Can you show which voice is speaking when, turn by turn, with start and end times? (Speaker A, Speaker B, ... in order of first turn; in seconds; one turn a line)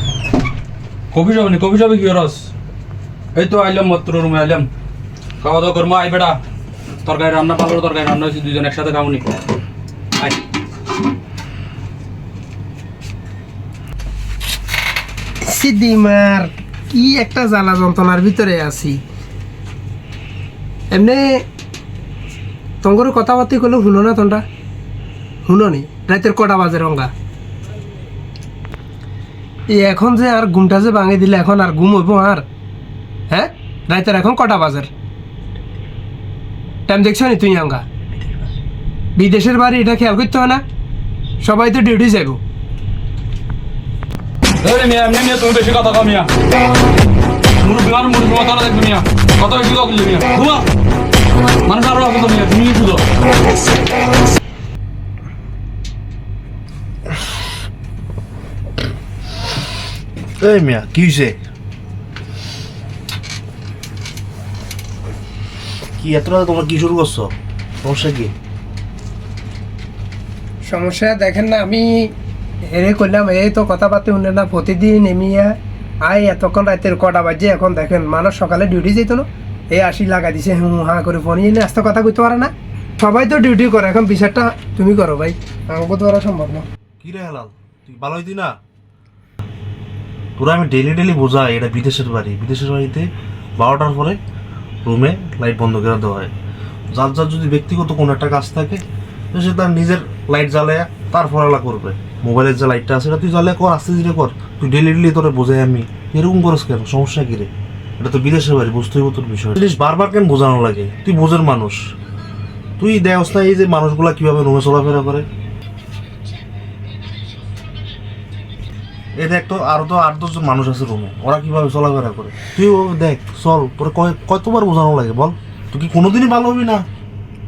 Speaker A: 1.1-2.5
Speaker A: 3.3-4.7
Speaker A: 5.4-6.4
Speaker A: 7.0-9.3
Speaker B: 15.4-19.0
Speaker B: 20.9-21.4
Speaker B: 22.8-24.4
Speaker B: 25.4-27.1
Speaker B: 29.7-32.4
Speaker B: 33.3-34.9
Speaker B: 36.9-37.8
Speaker B: 39.1-40.6
Speaker B: 41.4-42.4
Speaker A: 44.6-46.3
Speaker A: 47.6-50.7
Speaker A: 51.6-53.0
Speaker C: 60.4-61.4
Speaker C: 66.0-68.3
Speaker B: 70.7-72.1
Speaker B: 72.7-86.7
Speaker C: 87.0-88.5
Speaker C: 90.4-94.2
Speaker C: 94.8-96.3
Speaker C: 96.9-111.9
Speaker C: 112.8-115.3
Speaker C: 119.2-126.8